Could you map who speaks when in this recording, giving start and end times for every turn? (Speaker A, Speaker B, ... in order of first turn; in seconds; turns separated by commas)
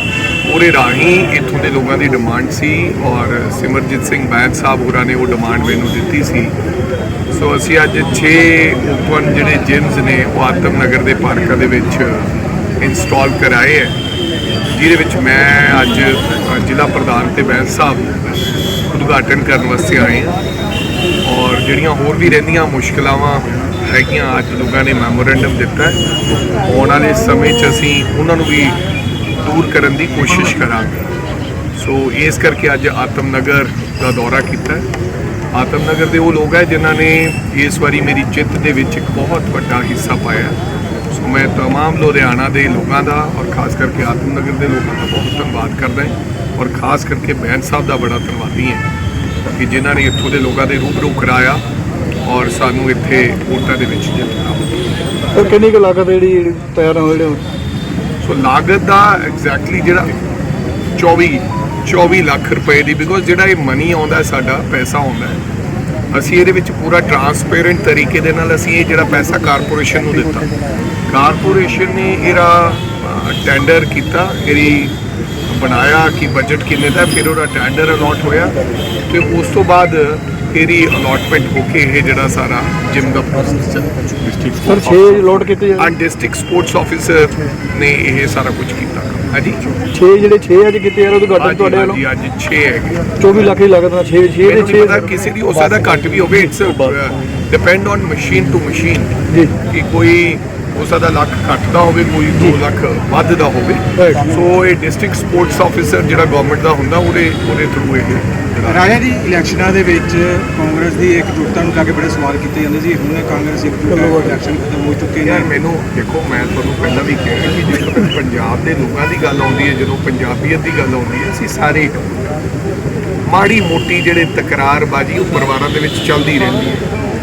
Speaker A: 0.4-6.5, Speaker A: 7.3-14.0, Speaker A: 14.7-18.4, Speaker A: 18.9-20.4, Speaker A: 21.2-26.0, Speaker A: 26.6-28.8, Speaker A: 29.4-31.1, Speaker A: 31.8-34.9, Speaker A: 35.5-40.6, Speaker A: 41.1-48.9, Speaker A: 49.5-51.6, Speaker A: 52.2-54.7, Speaker B: 55.3-57.4, Speaker A: 58.2-60.1, Speaker A: 61.0-65.4, Speaker A: 66.1-70.5, Speaker A: 71.1-75.0, Speaker A: 75.5-78.5, Speaker A: 79.1-89.7, Speaker B: 84.6-85.9, Speaker B: 89.9-92.0, Speaker A: 91.4-93.0, Speaker B: 93.2-96.9, Speaker A: 94.4-99.1, Speaker A: 99.6-108.9, Speaker B: 104.0-104.3, Speaker C: 108.7-115.5, Speaker B: 113.9-114.3, Speaker A: 115.2-122.2, Speaker A: 123.2-126.8